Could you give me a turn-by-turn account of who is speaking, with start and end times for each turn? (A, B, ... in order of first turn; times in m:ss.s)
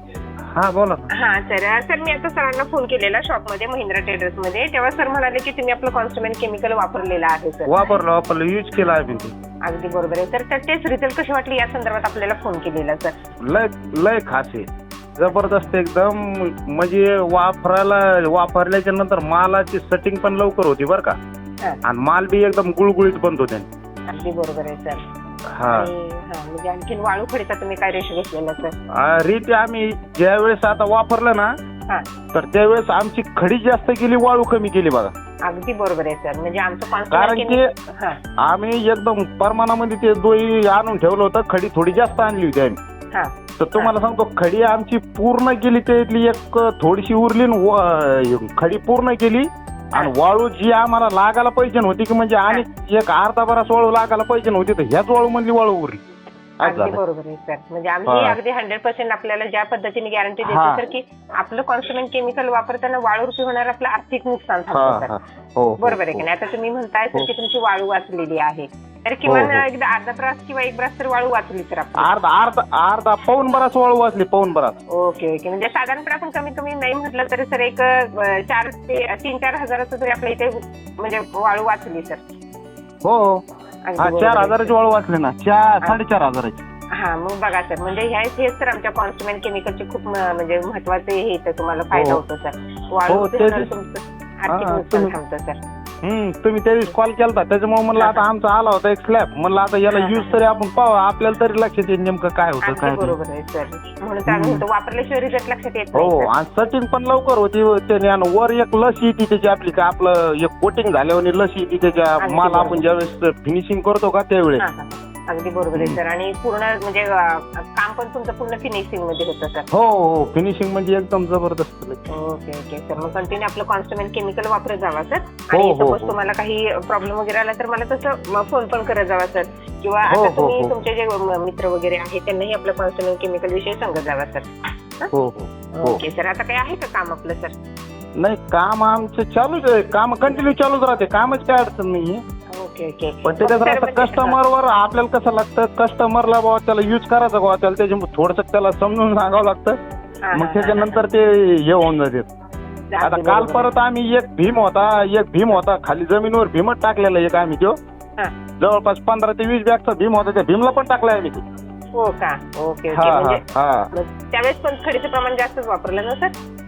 0:00.5-0:01.1 A
0:01.1-0:08.0 B
0:07.7-0:09.3 A
0:09.6-0:13.1 B
0:13.5-0:21.2 A
0:15.3-0:15.7 B
0:21.8-0:23.7 A
0:24.1-0:25.0 B
0:25.5-0:25.9 A
0:25.6-0:28.8 B
0:28.9-0:31.5 A
0:32.3-0:35.1 A
0:35.4-0:38.2 B
0:37.1-0:37.7 A
0:38.4-0:42.8 A
0:43.1-0:43.9 B
0:43.6-0:56.0 A
0:56.6-0:57.0 A
0:56.6-1:05.1 B
0:58.1-0:58.4 A
1:00.4-1:00.8 A
1:04.7-1:06.2 A
1:05.8-1:12.1 B
1:09.2-1:09.6 A
1:12.0-1:14.8 A
1:14.9-1:22.2 B
1:23.0-1:23.4 A
1:23.8-1:24.7 B
1:24.0-1:26.6 A
1:26.9-1:35.6 B
1:31.9-1:32.2 A
1:33.1-1:33.7 A
1:34.5-1:35.1 A
1:36.0-1:43.1 A
1:38.0-1:38.2 B
1:39.9-1:40.4 B
1:42.6-1:46.3 B
1:44.3-1:44.6 A
1:45.9-1:54.6 A
1:52.2-1:52.8 B
1:54.6-1:59.6 B
1:59.7-2:02.0 A
2:02.1-2:14.5 B
2:05.5-2:06.1 A
2:10.1-2:10.7 A
2:15.1-2:16.0 A
2:15.7-2:17.5 B
2:18.2-2:22.2 A
2:22.5-2:24.4 B
2:23.2-2:29.8 A
2:30.2-2:31.0 B
2:30.3-2:32.3 A
2:32.9-2:33.7 B
2:33.0-2:37.7 A
2:38.6-2:41.4 A
2:41.9-2:46.3 B
2:42.9-2:43.9 A